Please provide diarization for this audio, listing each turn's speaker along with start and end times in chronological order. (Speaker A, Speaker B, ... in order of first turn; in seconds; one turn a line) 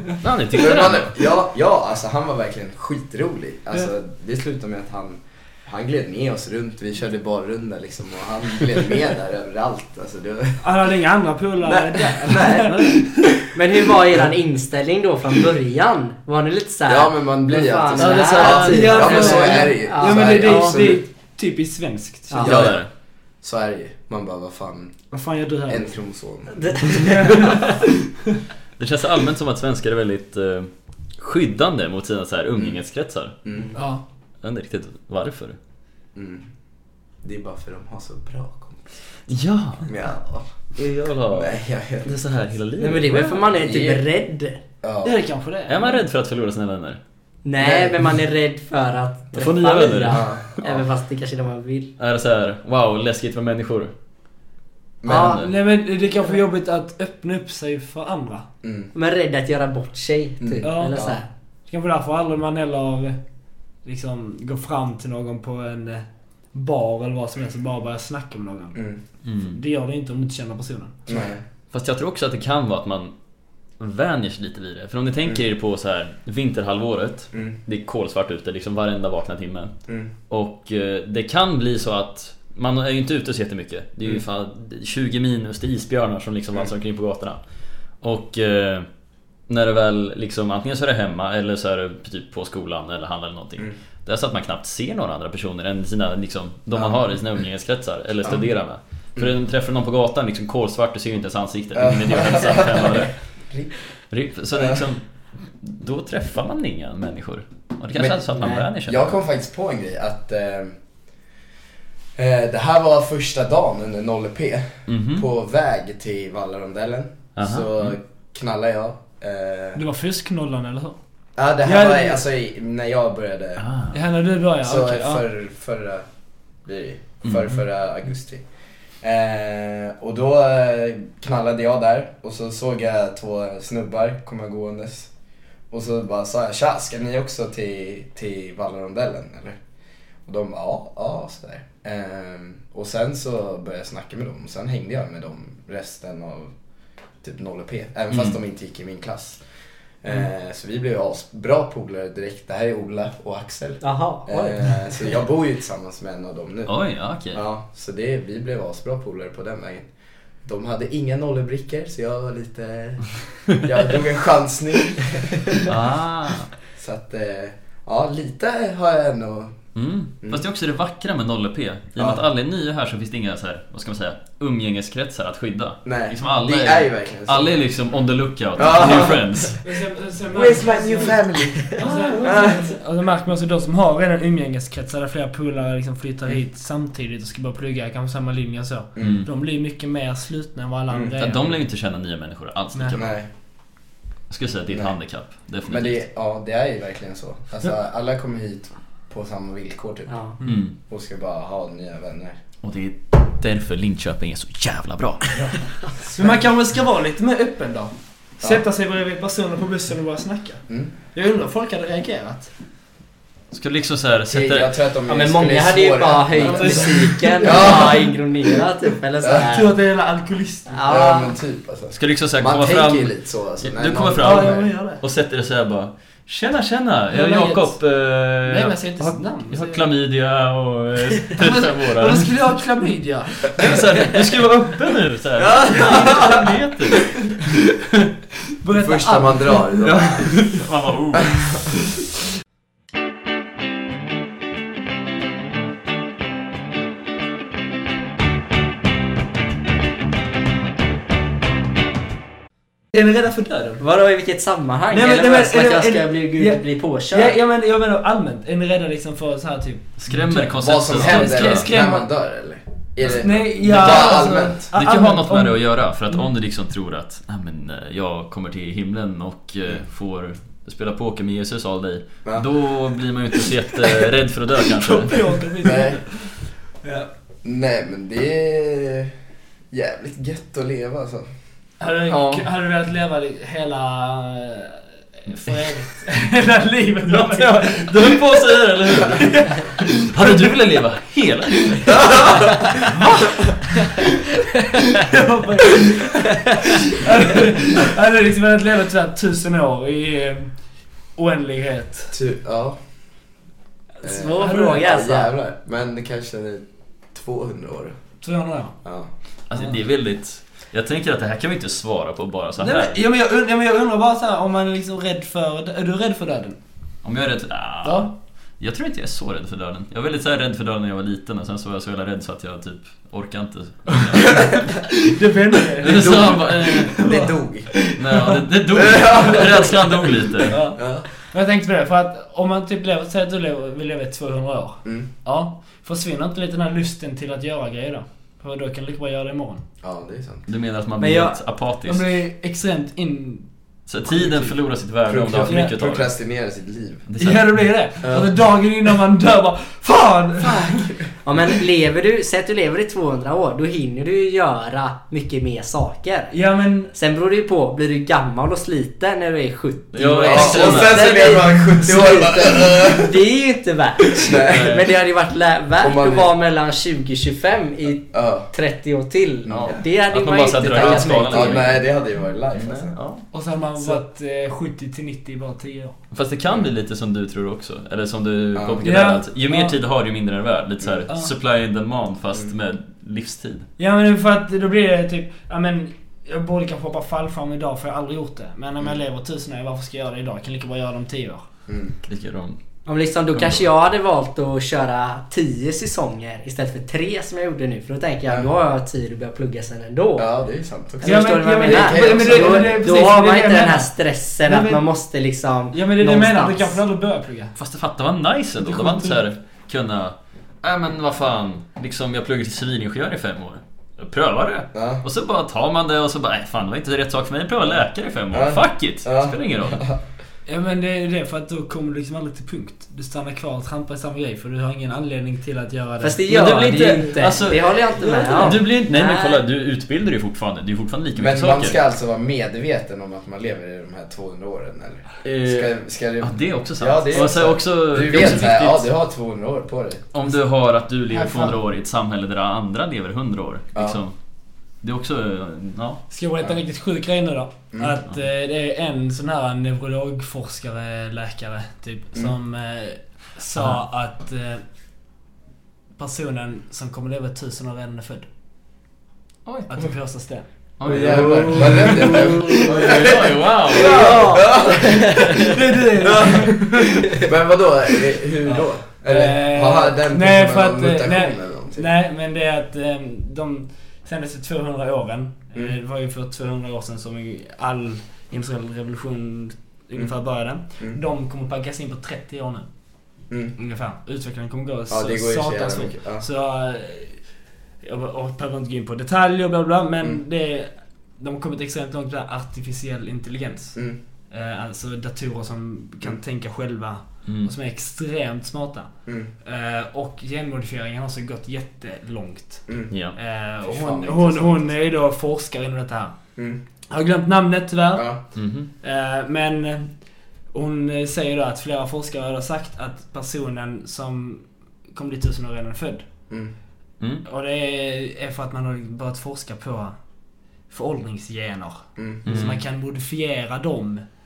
Speaker A: 0.2-1.1
Speaker B: 0.5-10.7
Speaker C: 10.6-13.3
Speaker B: 11.6-13.3
Speaker D: 13.5-20.6
Speaker B: 16.9-21.1
Speaker A: 17.9-19.4
Speaker C: 18.4-22.5
Speaker A: 20.4-20.8
Speaker D: 22.3-22.7
Speaker B: 22.4-22.8
Speaker A: 22.4-22.9
Speaker B: 23.4-24.9
Speaker C: 25.1-25.9
Speaker B: 25.7-27.4
Speaker D: 26.5-27.7
Speaker C: 26.9-28.2
Speaker A: 28.8-33.3
Speaker B: 33.5-33.7
Speaker C: 33.8-34.0
Speaker A: 34.4-35.6
Speaker B: 36.1-36.5
Speaker B: 37.2-38.9
Speaker A: 39.3-39.9
Speaker B: 39.9-40.5
Speaker A: 40.8-43.4
Speaker B: 41.3-42.1
Speaker D: 42.8-44.6
Speaker B: 43.2-44.0
Speaker B: 44.8-45.2
Speaker C: 45.0-46.0
Speaker A: 45.7-47.0
Speaker D: 47.5-51.9
Speaker B: 47.6-48.0
Speaker A: 49.3-50.4
Speaker B: 50.1-50.8
Speaker A: 52.0-53.9
Speaker B: 55.0-55.5
Speaker D: 55.1-55.4
Speaker A: 55.1-55.5
Speaker C: 55.3-58.5
Speaker B: 58.6-58.9
Speaker D: 58.9-61.3
Speaker B: 60.4-61.2
Speaker C: 60.6-61.0
Speaker C: 61.7-63.2
Speaker C: 63.9-68.8
Speaker A: 69.2-69.6
Speaker C: 69.4-71.0
Speaker B: 71.1-71.4
Speaker A: 71.7-73.1
Speaker A: 73.8-79.7
Speaker B: 77.3-77.6
Speaker A: 80.3-87.4
Speaker A: 88.0-88.9
Speaker A: 89.5-103.2
Speaker B: 101.8-103.7
Speaker A: 104.1-105.0
Speaker B: 104.5-104.8
Speaker A: 105.6-109.1
Speaker B: 108.0-110.8
Speaker D: 108.3-108.7
Speaker B: 112.2-119.8
Speaker A: 114.9-115.2
Speaker A: 117.4-118.0
Speaker C: 119.8-121.0
Speaker B: 121.4-123.7
Speaker C: 121.6-122.2
Speaker A: 123.6-124.0
Speaker C: 123.9-125.2
Speaker B: 124.6-126.1
Speaker B: 126.7-128.4
Speaker A: 127.2-127.6
Speaker B: 129.0-135.1
Speaker B: 135.7-139.6
Speaker B: 140.3-146.5
Speaker B: 147.2-149.4
Speaker B: 150.0-156.7
Speaker D: 153.8-154.9
Speaker A: 156.7-157.4
Speaker B: 157.3-159.9
Speaker B: 160.4-165.7
Speaker A: 165.6-166.5
Speaker B: 166.8-169.6
Speaker A: 169.8-179.6
Speaker B: 175.8-177.6
Speaker B: 178.6-179.2
Speaker C: 179.6-191.6
Speaker B: 180.3-182.8
Speaker B: 189.0-189.2
Speaker A: 189.0-189.3
Speaker A: 191.2-193.1
Speaker B: 192.9-193.3
Speaker A: 194.3-196.0
Speaker B: 195.7-200.1
Speaker D: 200.1-200.3
Speaker A: 200.4-200.8
Speaker B: 200.9-202.4
Speaker A: 202.6-205.4
Speaker C: 206.0-212.5
Speaker A: 213.5-214.8
Speaker B: 214.3-218.2
Speaker D: 215.1-219.7
Speaker C: 216.3-218.0
Speaker B: 219.2-219.5
Speaker C: 219.5-220.8
Speaker D: 220.7-221.3
Speaker B: 220.9-224.7
Speaker A: 221.9-232.3
Speaker C: 224.2-225.0
Speaker C: 227.1-227.8
Speaker C: 228.5-229.8
Speaker C: 231.3-234.8
Speaker A: 233.5-237.3
Speaker B: 235.4-236.4
Speaker C: 235.7-236.5
Speaker C: 237.3-238.1
Speaker C: 238.6-240.2
Speaker B: 238.7-240.3
Speaker A: 239.8-241.7
Speaker B: 241.2-241.6
Speaker C: 252.9-253.8
Speaker D: 253.8-257.4
Speaker C: 254.9-256.6
Speaker C: 257.1-262.1
Speaker A: 260.0-261.7
Speaker B: 260.6-264.7
Speaker A: 263.0-275.3
Speaker C: 263.1-265.6
Speaker C: 274.8-277.1
Speaker B: 275.6-276.0
Speaker B: 277.4-279.1
Speaker B: 279.7-281.3
Speaker C: 281.8-290.6
Speaker A: 282.1-282.5
Speaker A: 287.1-292.3
Speaker C: 291.6-300.5
Speaker B: 291.9-292.4
Speaker C: 301.2-302.1
Speaker B: 302.1-302.8
Speaker D: 304.0-305.3
Speaker B: 304.0-307.9
Speaker C: 304.4-304.8
Speaker C: 308.2-308.8
Speaker B: 308.8-309.1
Speaker A: 309.5-313.0
Speaker C: 312.6-316.6
Speaker A: 317.0-324.8
Speaker C: 317.8-318.1
Speaker C: 324.3-327.3
Speaker A: 325.8-327.1
Speaker B: 325.9-327.9
Speaker C: 327.9-329.4
Speaker A: 327.9-330.6
Speaker B: 328.7-329.9
Speaker C: 330.5-339.6
Speaker B: 330.8-331.1
Speaker B: 339.8-340.5
Speaker A: 340.5-342.1
Speaker C: 341.0-343.5
Speaker A: 343.9-346.1
Speaker C: 344.1-344.5
Speaker B: 345.1-347.1
Speaker C: 345.5-345.8
Speaker A: 347.1-347.6
Speaker C: 347.2-350.9
Speaker B: 348.0-348.3
Speaker B: 350.4-351.1
Speaker D: 351.2-356.3
Speaker C: 356.3-356.9
Speaker D: 356.9-371.7
Speaker A: 359.9-361.4
Speaker B: 360.3-363.2
Speaker B: 364.2-364.8
Speaker A: 364.5-364.9
Speaker B: 365.8-366.3
Speaker B: 368.1-368.5
Speaker B: 369.5-369.8
Speaker A: 369.5-371.8
Speaker B: 370.7-373.0
Speaker A: 372.6-373.2
Speaker C: 373.3-376.0
Speaker A: 376.1-383.7
Speaker B: 378.6-378.8
Speaker C: 378.8-379.8
Speaker C: 383.8-391.4
Speaker B: 391.7-391.9
Speaker A: 392.1-392.6
Speaker D: 392.9-400.3
Speaker A: 393.3-393.6
Speaker B: 400.2-402.9
Speaker D: 401.0-406.8
Speaker C: 401.0-403.9
Speaker C: 404.4-404.8
Speaker C: 405.7-407.5
Speaker A: 407.6-419.9
Speaker C: 408.6-409.2
Speaker B: 414.7-415.0
Speaker B: 418.3-420.0
Speaker C: 420.5-426.2
Speaker D: 426.0-429.4
Speaker A: 426.3-431.8
Speaker B: 426.7-427.1
Speaker B: 431.2-440.1
Speaker A: 435.2-438.9
Speaker A: 440.1-444.1
Speaker C: 441.1-441.6
Speaker B: 443.8-444.0
Speaker A: 444.8-446.0
Speaker C: 446.1-454.6
Speaker B: 447.7-448.0
Speaker C: 456.0-458.3
Speaker C: 459.7-460.5
Speaker A: 460.8-464.5
Speaker B: 460.8-465.4
Speaker C: 461.2-463.1
Speaker C: 463.7-467.3
Speaker D: 465.1-465.4
Speaker B: 466.0-471.9
Speaker C: 468.5-482.7
Speaker B: 483.3-483.6
Speaker C: 483.6-487.2
Speaker B: 484.9-486.3
Speaker C: 487.8-493.8
Speaker C: 494.3-498.9
Speaker A: 497.3-497.5
Speaker C: 499.4-506.2
Speaker A: 502.9-503.2
Speaker B: 503.6-504.7
Speaker C: 506.9-508.1
Speaker B: 507.9-508.2
Speaker A: 508.4-508.7
Speaker C: 508.8-510.0
Speaker C: 510.5-516.0
Speaker C: 517.3-520.0
Speaker C: 520.7-524.0
Speaker B: 522.0-522.2
Speaker A: 522.3-522.6